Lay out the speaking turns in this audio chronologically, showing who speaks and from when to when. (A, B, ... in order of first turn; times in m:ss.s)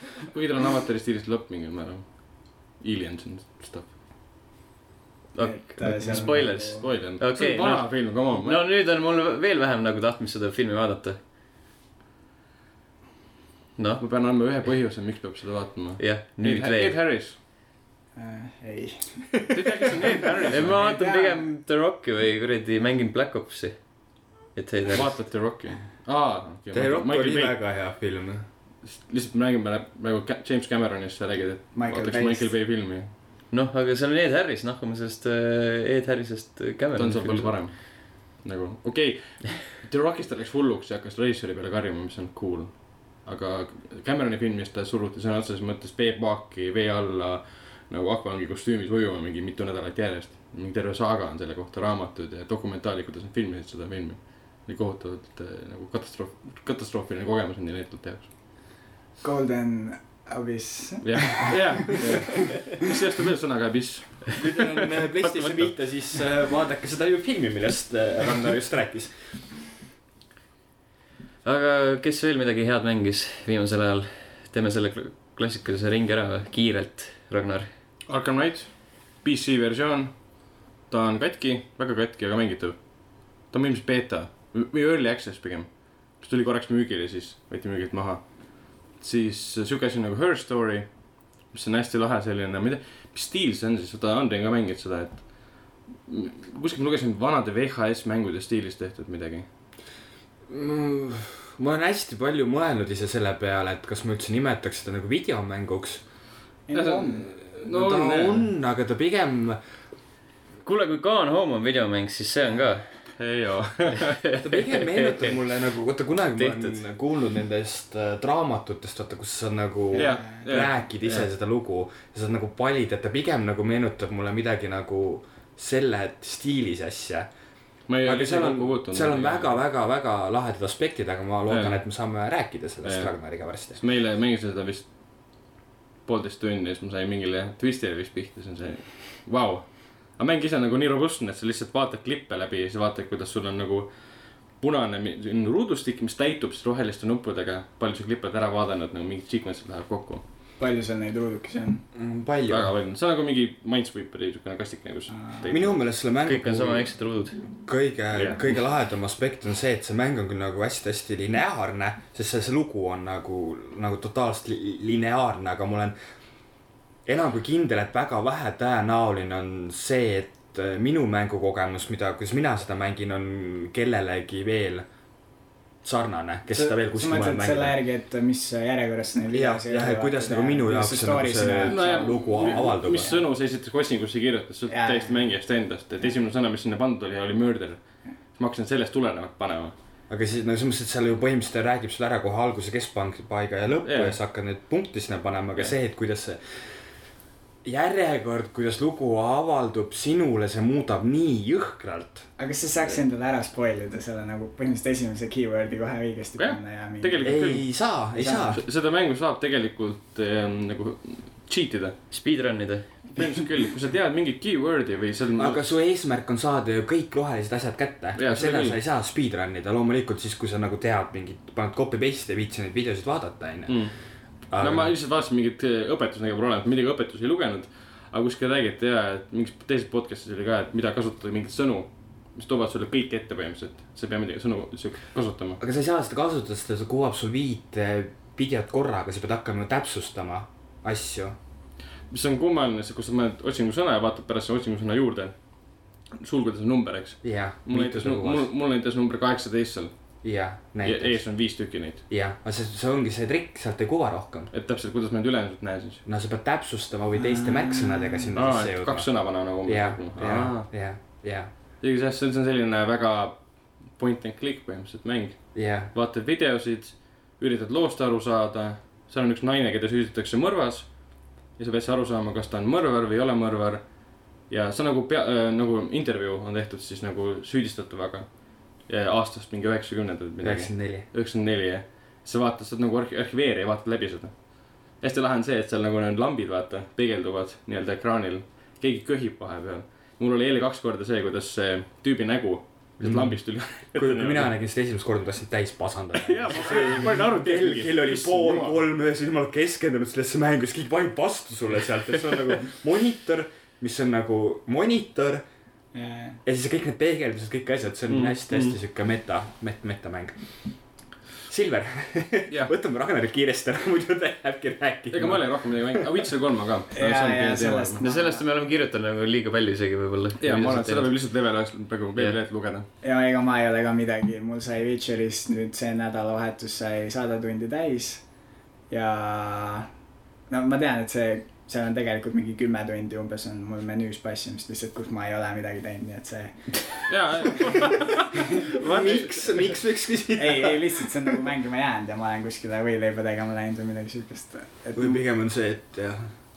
0:00.2-0:03.9 A
0:05.3-0:11.2 B
0:05.4-0:06.9 C
0:06.0-0:08.7 A
0:13.8-0:14.0 B
0:14.0-0:17.4 A
0:16.0-0:17.0 B
0:18.2-0:19.5 C
0:19.5-0:20.9 A
0:20.1-0:21.5 C
0:20.4-0:25.2 B
0:24.9-0:27.6 A
0:26.7-0:28.5 D
0:28.8-0:33.1 A
0:31.7-0:32.5 C
0:33.5-0:37.6 B
0:37.0-0:58.3 A
0:59.2-1:02.3 C
1:01.0-1:04.5 A
1:04.4-1:09.4 D
1:05.2-1:05.6 B
1:11.4-1:17.7 B
1:18.1-1:39.5 A
1:40.5-1:46.0 D
1:46.7-1:47.3 C
1:46.7-1:48.5 A
1:47.6-1:49.6 D
1:50.6-1:53.0 B
1:53.2-1:54.2 A
1:54.3-1:55.4 B
1:54.4-2:07.3 D
1:56.4-1:56.8 B
1:59.9-2:00.4 C
1:59.9-2:01.3 A
2:07.9-2:09.6 A
2:08.0-2:13.8 D
2:11.5-2:12.1 A
2:12.8-2:15.5 A
2:16.0-2:30.2 A
2:30.6-2:31.8 C
2:32.0-2:32.7 D
2:32.5-2:35.9 A
2:35.1-2:35.5 C
2:35.5-2:37.0 D
2:36.2-2:37.4 B
2:37.7-2:46.0 D
2:38.1-2:38.5 A
2:47.0-2:54.9 D
2:55.8-2:57.8 D
2:56.5-3:03.2 C
2:59.3-3:03.2 D
3:01.7-3:09.7 A
3:04.7-3:05.2 C
3:10.1-3:16.8 D
3:13.8-3:14.2 A
3:17.6-3:22.3 D
3:22.4-3:27.4 C
3:26.4-3:27.7 A
3:27.2-3:28.6 D
3:28.2-3:28.6 C
3:28.5-3:32.0 A
3:32.1-3:32.9 B
3:33.2-3:35.6 A
3:35.4-3:43.9 D
3:38.2-3:38.8 A
3:43.7-3:55.6 A
3:44.5-3:44.9 D
3:55.6-4:01.4 D
4:02.1-4:09.9 A
4:07.2-4:08.5 D
4:10.2-4:11.2 D
4:10.8-4:12.0 A
4:12.1-4:14.5 D
4:14.5-4:16.0 A
4:16.1-4:21.5 D
4:17.2-4:18.3 C
4:18.4-4:20.7 A
4:21.8-4:54.5 A
4:25.6-4:25.9 D
4:40.4-4:41.1 D
4:53.0-4:53.4 D
4:53.9-5:05.4 D
4:56.2-4:58.8 A
5:05.9-5:06.4 C
5:06.4-5:10.4 D
5:08.1-5:08.4 A
5:11.5-5:16.1 D
5:15.1-5:18.0 A
5:16.9-5:18.5 C
5:18.0-5:21.1 B
5:20.4-5:22.9 A
5:23.0-5:28.2 C
5:28.9-5:29.9 C
5:30.5-5:37.7 C
5:37.1-5:38.2 A
5:38.8-5:41.1 D
5:38.8-5:39.3 A
5:40.4-5:45.2 C
5:45.0-5:46.4 D